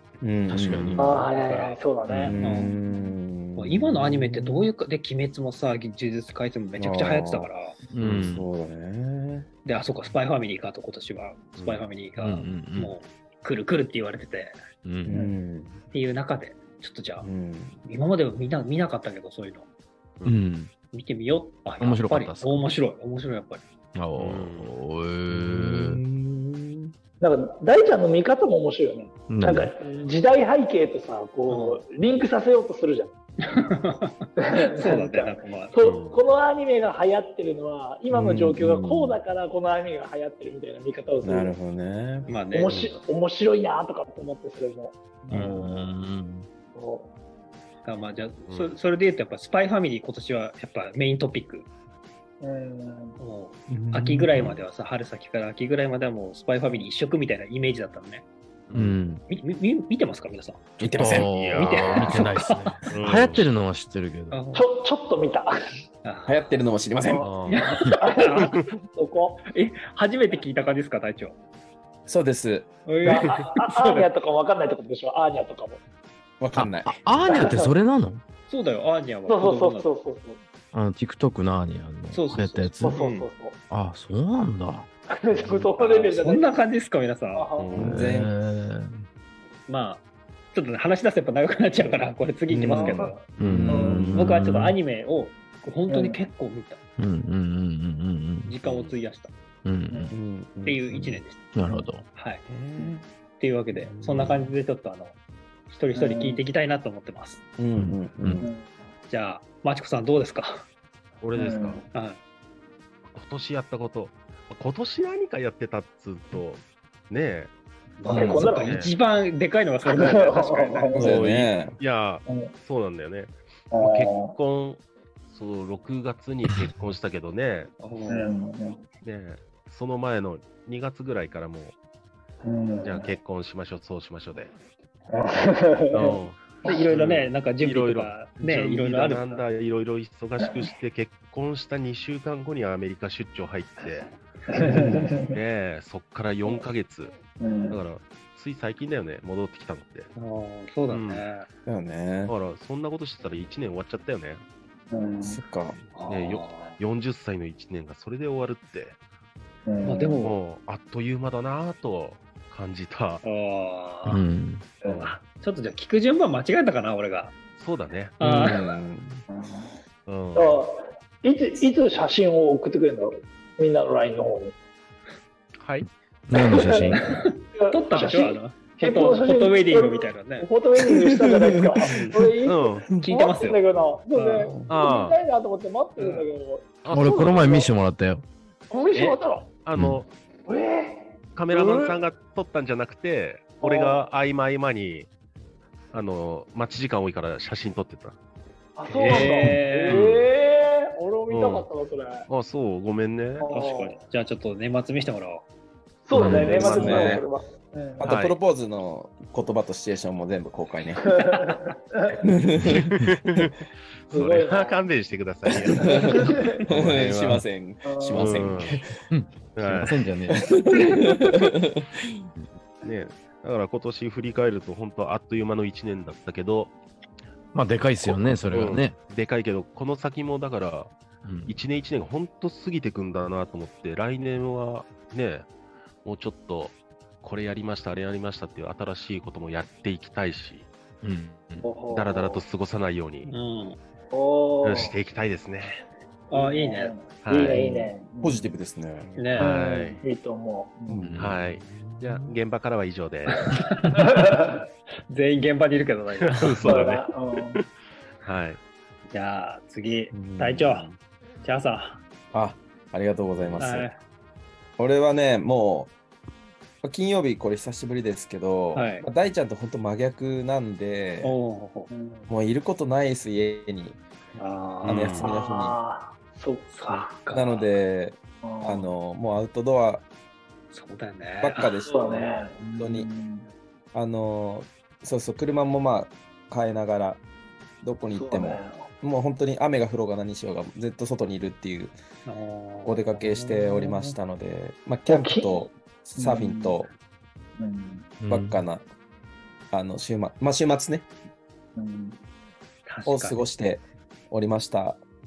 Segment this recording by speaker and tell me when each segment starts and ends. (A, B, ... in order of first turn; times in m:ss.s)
0:00.2-0:01.2 A
0:00.5-0:01.2 B
0:01.0-0:03.2 C
0:01.1-0:01.8 D
0:02.1-0:04.7 A
0:02.4-0:02.8 D
0:03.6-0:07.8 D
0:06.8-0:07.5 A
0:07.9-0:08.5 B
0:08.1-0:09.5 A
0:09.6-0:14.6 D
0:11.6-0:12.9 B
0:14.8-0:15.1 B
0:15.1-0:15.8 A
0:15.1-0:15.3 C
0:15.9-0:17.3 D
0:17.2-0:17.8 A
0:17.8-0:19.7 D
0:20.2-0:20.7 B
0:20.9-0:23.6 D
0:21.8-0:22.8 B
0:23.9-0:26.0 B
0:24.2-0:24.7 E
0:25.3-0:26.9 A
0:27.2-0:33.1 C
0:29.3-0:29.7 B
0:31.5-0:31.8 D
0:33.5-0:35.8 D
0:34.5-0:41.6 C
0:35.8-0:36.2 E
0:38.1-0:39.2 A
0:41.2-0:42.3 A
0:42.3-0:42.8 D
0:42.5-0:45.7 C
0:45.3-0:46.5 B
0:45.4-0:45.9 D
0:46.7-0:47.1 C
0:47.8-0:51.7 D
0:48.5-0:48.8 E
0:52.4-0:53.2 C
0:53.2-0:58.2 D
0:53.7-0:54.6 A
0:58.7-0:59.0 E
0:58.7-0:59.2 B
0:59.3-1:00.6 D
1:00.8-1:01.3 A
1:00.8-1:04.4 B
1:01.1-1:02.2 E
1:01.4-1:02.8 D
1:02.9-1:03.5 E
1:04.3-1:04.7 D
1:04.5-1:05.5 C
1:06.0-1:06.4 D
1:06.3-1:07.3 A
1:07.0-1:09.4 C
1:07.2-1:07.6 E
1:07.5-1:08.6 D
1:09.5-1:11.3 D
1:12.1-1:12.7 A
1:12.8-1:14.1 D
1:13.0-1:15.8 C
1:16.4-1:17.4 A
1:16.6-1:18.2 B
1:17.2-1:17.8 C
1:18.5-1:19.9 D
1:19.3-1:20.4 C
1:20.7-1:23.0 B
1:22.1-1:23.3 D
1:22.8-1:23.6 C
1:23.7-1:24.9 B
1:25.1-1:26.5 C
1:25.8-1:27.5 D
1:27.3-1:27.8 C
1:27.6-1:28.0 E
1:27.8-1:28.3 A
1:27.8-1:29.0 B
1:29.7-1:33.2 D
1:32.5-1:34.8 B
1:32.7-1:34.4 A
1:33.0-1:34.0 C
1:34.1-1:36.8 D
1:35.9-1:36.2 C
1:37.0-1:38.5 B
1:38.5-1:39.3 D
1:38.6-1:38.9 E
1:39.6-1:40.1 B
1:40.1-1:40.9 A
1:40.6-1:41.5 D
1:40.9-1:42.0 B
1:42.1-1:42.4 D
1:42.5-1:43.0 A
1:43.4-1:45.2 D
1:43.7-1:44.4 A
1:45.7-1:47.4 D
1:45.9-1:46.4 C
1:47.6-1:48.5 A
1:47.8-1:48.4 B
1:48.4-1:48.8 C
1:49.1-1:50.7 D
1:51.2-1:51.8 E
1:51.3-1:51.8 C
1:51.9-1:52.2 D
1:53.1-1:57.5 E
1:58.0-2:01.0 D
1:58.1-1:58.7 C
1:58.3-1:58.9 E
1:59.8-2:01.1 C
2:01.0-2:01.8 A
2:01.0-2:07.7 E
2:02.3-2:02.5 C
2:03.7-2:04.4 C
2:07.8-2:08.3 D
2:08.1-2:08.8 C
2:09.0-2:11.8 E
2:12.4-2:13.1 C
2:12.8-2:14.5 E
2:15.1-2:16.2 C
2:15.9-2:27.1 E
2:16.6-2:19.4 D
2:24.5-2:25.3 C
2:27.4-2:27.8 C
2:27.7-2:30.1 E
2:30.2-2:31.5 D
2:30.9-2:31.3 E
2:31.7-2:32.3 A
2:32.3-2:34.4 E
2:34.9-2:35.4 C
2:35.2-2:35.8 A
2:36.0-2:36.8 D
2:36.1-2:39.0 E
2:39.7-2:40.3 C
2:39.8-2:40.3 D
2:40.2-2:43.2 E
2:43.2-2:44.2 D
2:44.0-2:44.7 B
2:44.8-2:45.2 E
2:44.9-2:47.3 D
2:47.6-2:48.2 E
2:48.2-2:48.7 D
2:48.2-2:49.2 A
2:49.3-2:49.7 C
2:50.1-2:50.6 E
2:50.3-2:54.5 C
2:55.6-2:55.9 E
2:55.8-2:57.0 B
2:56.3-2:57.0 C
2:56.8-3:00.5 D
2:57.5-3:07.7 C
3:01.3-3:02.2 A
3:01.9-3:02.2 D
3:02.4-3:02.9 E
3:03.0-3:03.6 D
3:04.1-3:04.5 D
3:04.4-3:04.8 A
3:04.7-3:05.2 E
3:06.0-3:06.3 D
3:06.8-3:07.6 E
3:06.9-3:08.2 B
3:08.7-3:09.5 C
3:08.9-3:09.2 D
3:09.6-3:10.1 E
3:09.7-3:10.0 B
3:10.5-3:12.0 C
3:11.3-3:15.1 E
3:13.6-3:14.1 C
3:15.9-3:18.2 E
3:18.8-3:22.3 C
3:18.9-3:20.1 D
3:19.3-3:19.5 B
3:19.8-3:20.2 E
3:21.3-3:21.7 E
3:22.3-3:23.5 E
3:23.4-3:24.0 C
3:23.5-3:25.4 D
3:26.0-3:28.1 C
3:26.2-3:26.8 B
3:26.2-3:27.2 E
3:26.6-3:27.2 A
3:28.0-3:31.0 A
3:28.0-3:28.4 E
3:31.0-3:32.2 C
3:32.2-3:32.8 A
3:32.7-3:37.4 E
3:34.1-3:34.8 C
3:35.7-3:36.2 A
3:35.8-3:36.6 C
3:36.7-3:38.8 A
3:37.8-3:38.5 C
3:38.1-3:38.8 E
3:39.0-3:40.5 B
3:39.5-3:40.0 E
3:40.3-3:42.2 A
3:42.8-3:46.7 E
3:47.5-3:49.0 B
3:48.5-3:51.0 E
3:51.2-3:51.6 B
3:51.5-3:55.5 E
3:56.0-4:00.7 E
4:01.0-4:01.7 B
4:01.6-4:02.4 C
4:01.9-4:03.3 E
4:03.3-4:03.8 D
4:04.1-4:04.9 C
4:04.6-4:05.8 E
4:06.3-4:07.0 D
4:06.3-4:08.5 C
4:07.2-4:07.7 E
4:07.5-4:07.9 D
4:08.2-4:09.4 A
4:09.2-4:09.5 D
4:09.3-4:10.0 E
4:09.4-4:11.0 C
4:10.9-4:12.3 A
4:11.0-4:11.4 B
4:11.2-4:13.4 E
4:13.4-4:14.2 D
4:14.0-4:14.6 C
4:15.1-4:17.0 D
4:16.2-4:17.6 E
4:16.6-4:17.6 C
4:18.2-4:18.6 E
4:19.1-4:20.9 D
4:20.1-4:20.9 A
4:21.4-4:22.0 D
4:22.3-4:23.9 A
4:23.6-4:24.0 D
4:24.8-4:25.9 A
4:26.8-4:31.4 A
4:28.7-4:29.0 D
4:31.2-4:31.9 D
4:31.9-4:32.3 C
4:32.3-4:35.8 A
4:34.4-4:35.1 D
4:34.8-4:35.2 E
4:35.2-4:37.1 C
4:36.7-4:37.6 D
4:37.3-4:40.0 A
4:38.4-4:38.9 C
4:40.7-4:42.3 D
4:41.4-4:42.1 A
4:41.9-4:43.5 C
4:42.8-4:43.1 A
4:43.9-4:47.2 A
4:47.8-4:52.0 A
4:48.1-4:48.9 C
4:52.2-4:53.4 D
4:52.8-4:56.9 A
4:53.5-4:54.2 C
4:55.0-4:55.6 C
4:56.2-4:56.8 C
4:57.6-4:58.1 C
4:58.2-4:58.6 B
4:58.3-4:58.9 A
4:59.7-5:01.1 A
5:01.8-5:02.2 C
5:02.9-5:03.4 D
5:03.0-5:05.0 A